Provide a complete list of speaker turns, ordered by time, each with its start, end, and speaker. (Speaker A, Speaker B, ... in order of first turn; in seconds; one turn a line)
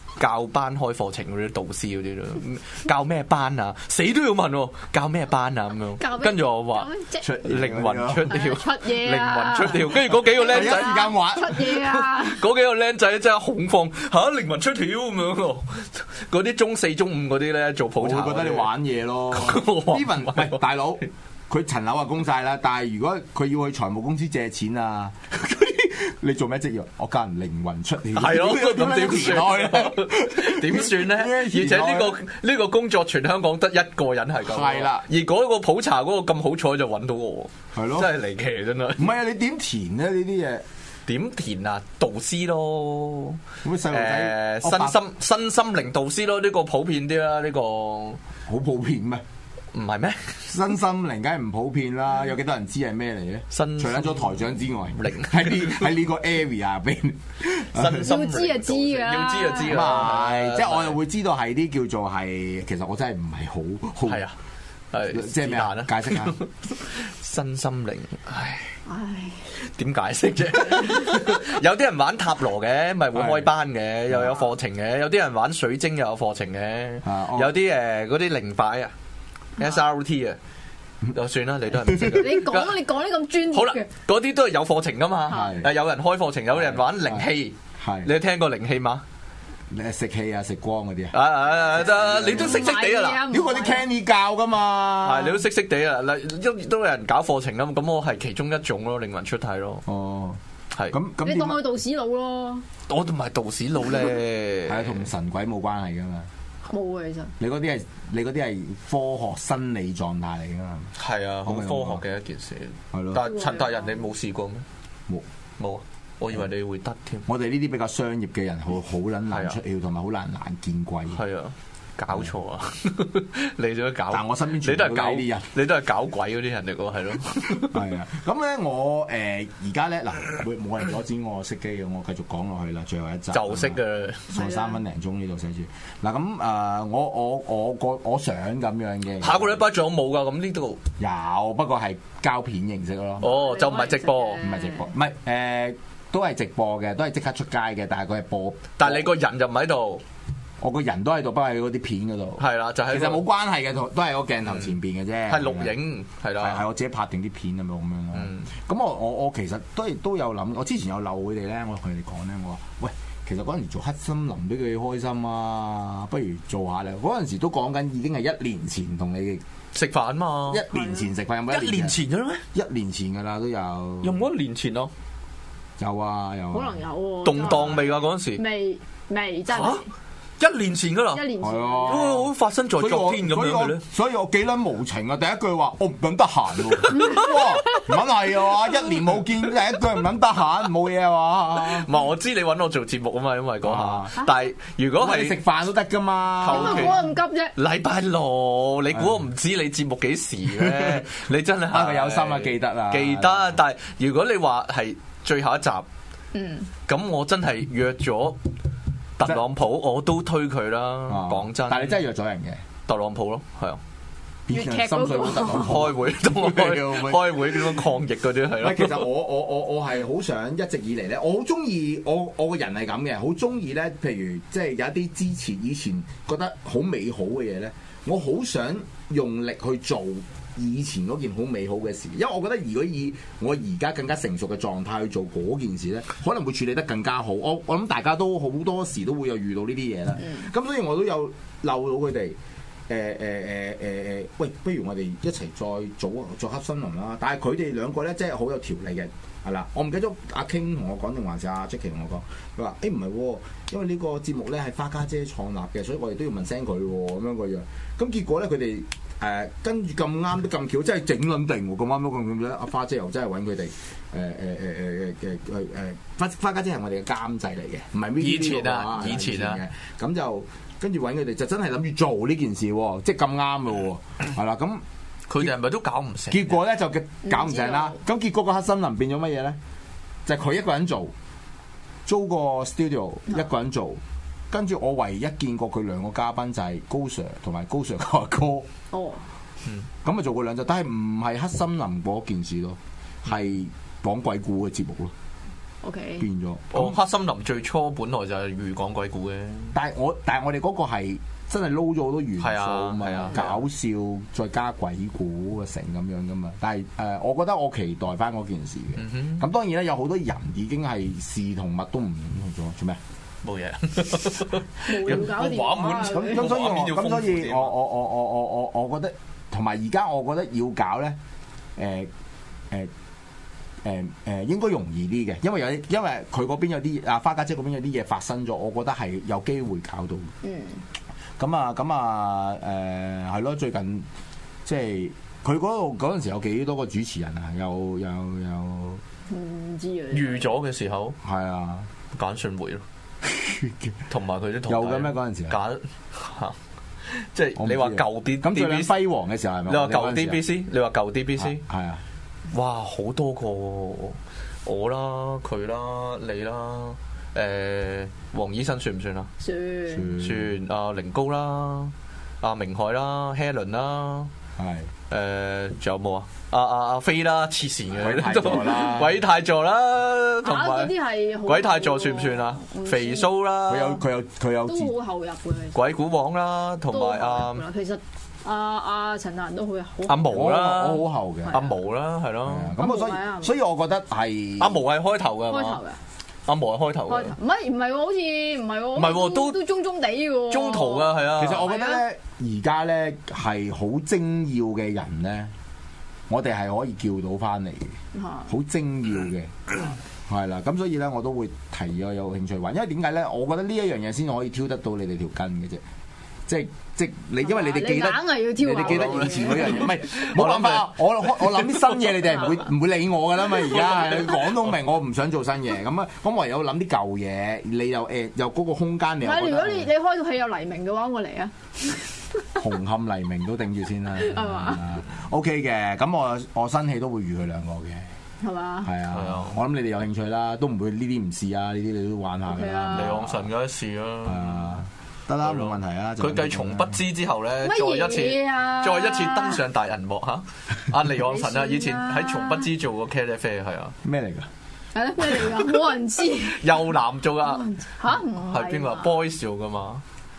Speaker A: 0.2-6.9
Speaker B: 6.0-7.2
Speaker C: 7.2-8.3
Speaker A: 7.4-18.7
Speaker B: 8.3-12.4
Speaker C: 10.3-11.8
Speaker C: 18.0-32.2
Speaker A: 19.3-20.6
Speaker A: 28.1-39.1
Speaker C: 34.4-35.0
Speaker C: 37.8-38.1
Speaker C: 39.0-40.6
Speaker A: 41.1-48.2
Speaker C: 43.6-45.0
Speaker C: 48.5-49.2
Speaker A: 49.7-50.5
Speaker C: 50.5-58.1
Speaker A: 53.5-56.0
Speaker A: 57.7-61.0
Speaker B: 57.9-60.0
Speaker C: 59.6-64.2
Speaker A: 64.0-64.3
Speaker A: 64.9-68.8
Speaker C: 65.1-66.3
Speaker B: 68.8-69.5
Speaker A: 69.6-78.9
Speaker C: 73.1-73.5
Speaker C: 74.1-74.4
Speaker C: 77.0-77.5
Speaker A: 79.6-80.4
Speaker A: 81.1-82.8
Speaker B: 82.1-83.9
Speaker A: 83.5-89.0
Speaker C: 85.3-85.7
Speaker C: 86.5-88.1
Speaker C: 89.7-92.7
Speaker A: 91.1-93.3
Speaker B: 92.4-93.8
Speaker C: 93.3-95.5
Speaker A: 95.0-99.8
Speaker C: 99.8-101.6
Speaker B: 101.2-102.6
Speaker A: 102.9-105.1
Speaker C: 104.7-106.3
Speaker B: 106.6-107.3
Speaker C: 107.4-110.9
Speaker A: 111.0-114.7
Speaker C: 111.4-112.0
Speaker C: 112.9-113.3
Speaker B: 113.2-113.9
Speaker A: 115.6-117.2
Speaker C: 117.2-121.2
Speaker A: 119.3-119.6
Speaker A: 121.1-127.8
Speaker C: 124.1-125.5
Speaker C: 127.6-139.6
Speaker A: 133.3-134.3
Speaker B: 134.3-134.8
Speaker A: 139.2-140.8
Speaker C: 141.0-143.3
Speaker A: 143.2-144.4
Speaker B: 143.2-144.9
Speaker C: 144.4-149.1
Speaker A: 148.8-150.0
Speaker C: 150.6-155.7
Speaker A: 152.4-153.2
Speaker A: 155.3-156.6
Speaker C: 156.4-169.4
Speaker A: 158.1-158.5
Speaker A: 169.7-170.7
Speaker C: 170.5-171.9
Speaker B: 170.7-171.1
Speaker A: 171.5-172.4
Speaker C: 172.5-174.2
Speaker A: 174.0-174.9
Speaker C: 175.8-176.8
Speaker B: 176.5-179.8
Speaker A: 177.2-178.4
Speaker C: 177.5-177.7
Speaker A: 179.5-179.8
Speaker A: 180.4-181.2
Speaker B: 181.1-182.2
Speaker C: 181.4-191.9
Speaker A: 181.8-183.8
Speaker B: 186.9-187.8
Speaker A: 191.6-195.4
Speaker C: 193.6-194.1
Speaker C: 195.0-197.0
Speaker A: 196.4-205.8
Speaker B: 196.4-197.5
Speaker C: 200.5-201.1
Speaker C: 201.7-203.5
Speaker B: 206.3-206.7
Speaker A: 206.9-208.4
Speaker A: 209.2-212.0
Speaker C: 211.1-212.6
Speaker A: 212.9-213.8
Speaker C: 214.5-217.8
Speaker B: 214.5-215.7
Speaker A: 215.2-219.1
Speaker C: 218.6-242.3
Speaker C: 242.9-274.8
Speaker A: 268.2-269.6
Speaker A: 275.3-276.6
Speaker C: 276.3-279.6
Speaker B: 277.2-278.0
Speaker C: 280.2-281.1
Speaker C: 282.1-288.7
Speaker B: 288.9-289.2
Speaker C: 290.0-295.1
Speaker B: 295.8-296.2
Speaker C: 296.2-297.0
Speaker A: 296.7-299.8
Speaker C: 299.7-313.0
Speaker A: 302.4-303.6
Speaker A: 309.0-309.4
Speaker A: 313.4-317.7
Speaker B: 314.8-316.4
Speaker C: 315.1-321.2
Speaker C: 321.8-322.1
Speaker C: 323.8-330.3
Speaker B: 330.4-330.8
Speaker C: 331.4-334.1
Speaker C: 334.6-339.0
Speaker B: 339.3-340.5
Speaker A: 340.1-341.2
Speaker C: 341.2-341.9
Speaker A: 342.1-342.8
Speaker C: 343.2-344.0
Speaker A: 344.1-346.6
Speaker C: 344.6-345.6
Speaker A: 347.1-348.9
Speaker C: 347.6-350.4
Speaker A: 349.7-351.6
Speaker C: 351.4-352.0
Speaker A: 352.5-359.3
Speaker B: 359.4-360.2
Speaker C: 359.9-360.5
Speaker A: 360.2-364.3
Speaker C: 364.6-364.9
Speaker A: 365.1-374.0
Speaker C: 367.9-369.2
Speaker B: 370.4-373.3
Speaker C: 373.7-374.9
Speaker B: 374.6-375.8
Speaker A: 375.7-377.6
Speaker B: 376.9-380.6
Speaker A: 380.1-382.7
Speaker C: 380.3-381.6
Speaker B: 381.4-381.7
Speaker C: 382.4-384.8
Speaker B: 382.8-383.5
Speaker A: 384.6-385.8
Speaker B: 385.5-386.0
Speaker A: 386.5-387.4
Speaker B: 387.1-392.0
Speaker A: 388.9-389.6
Speaker A: 390.5-391.7
Speaker C: 391.3-395.5
Speaker C: 396.3-405.8
Speaker B: 398.1-398.5
Speaker C: 406.5-419.9
Speaker B: 407.4-410.0
Speaker A: 408.8-412.5
Speaker A: 413.6-414.6
Speaker B: 419.2-422.1
Speaker C: 422.6-428.1
Speaker B: 424.2-424.8
Speaker B: 428.4-428.9
Speaker C: 428.8-433.3
Speaker A: 429.1-429.6
Speaker B: 432.5-433.3
Speaker A: 432.9-434.8
Speaker C: 434.2-437.0
Speaker A: 435.4-443.9
Speaker B: 437.6-439.6
Speaker B: 441.2-442.7
Speaker C: 444.0-444.5
Speaker B: 444.9-446.9
Speaker A: 446.3-447.7
Speaker B: 447.4-449.1
Speaker A: 448.3-450.0